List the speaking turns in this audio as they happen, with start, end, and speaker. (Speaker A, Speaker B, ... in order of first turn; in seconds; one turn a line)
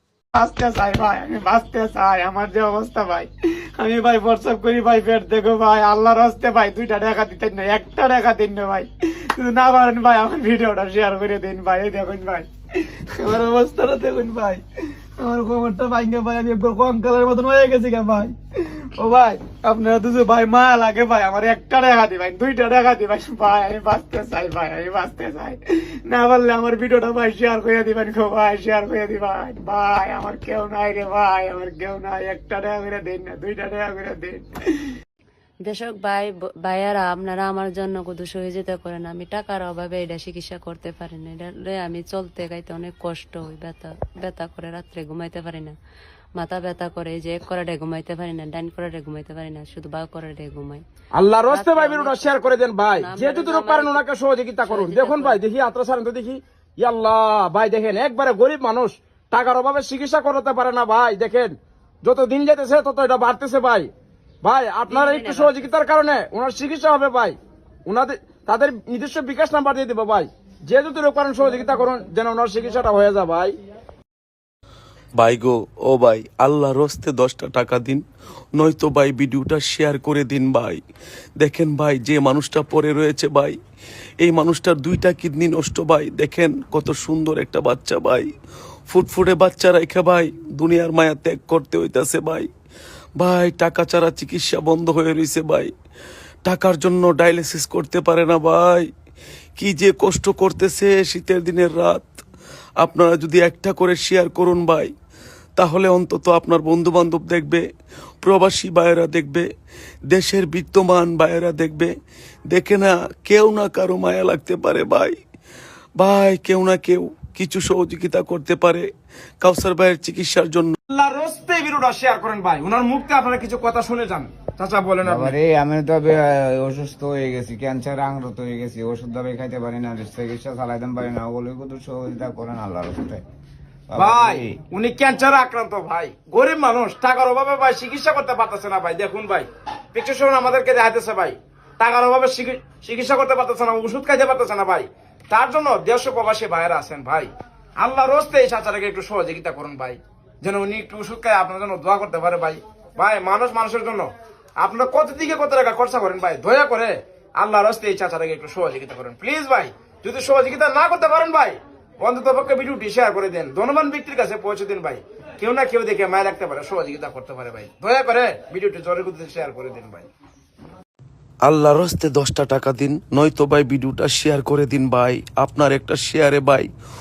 Speaker A: 0.3-12.5
Speaker A: 13.1-14.6
Speaker A: 15.2-18.4
Speaker A: 18.9-34.5
Speaker B: 35.6-45.7
Speaker B: 46.4-50.8
Speaker C: 51.2-63.9
Speaker B: 51.5-54.0
Speaker B: 54.6-55.4
Speaker C: 64.4-73.5
Speaker B: 64.9-65.8
Speaker D: 75.2-78.0
Speaker D: 78.6-80.8
Speaker D: 81.4-83.6
Speaker D: 84.2-88.3
Speaker D: 88.9-92.5
Speaker D: 93.2-95.7
Speaker D: 96.5-98.9
Speaker D: 99.6-102.1
Speaker D: 102.8-104.9
Speaker D: 105.6-107.6
Speaker D: 108.2-109.5
Speaker D: 110.1-111.9
Speaker D: 112.5-115.2
Speaker D: 116.0-118.9
Speaker D: 119.4-120.8
Speaker C: 120.9-125.3
Speaker E: 125.0-133.2
Speaker E: 133.9-134.6
Speaker C: 134.0-170.1
Speaker D: 171.4-176.7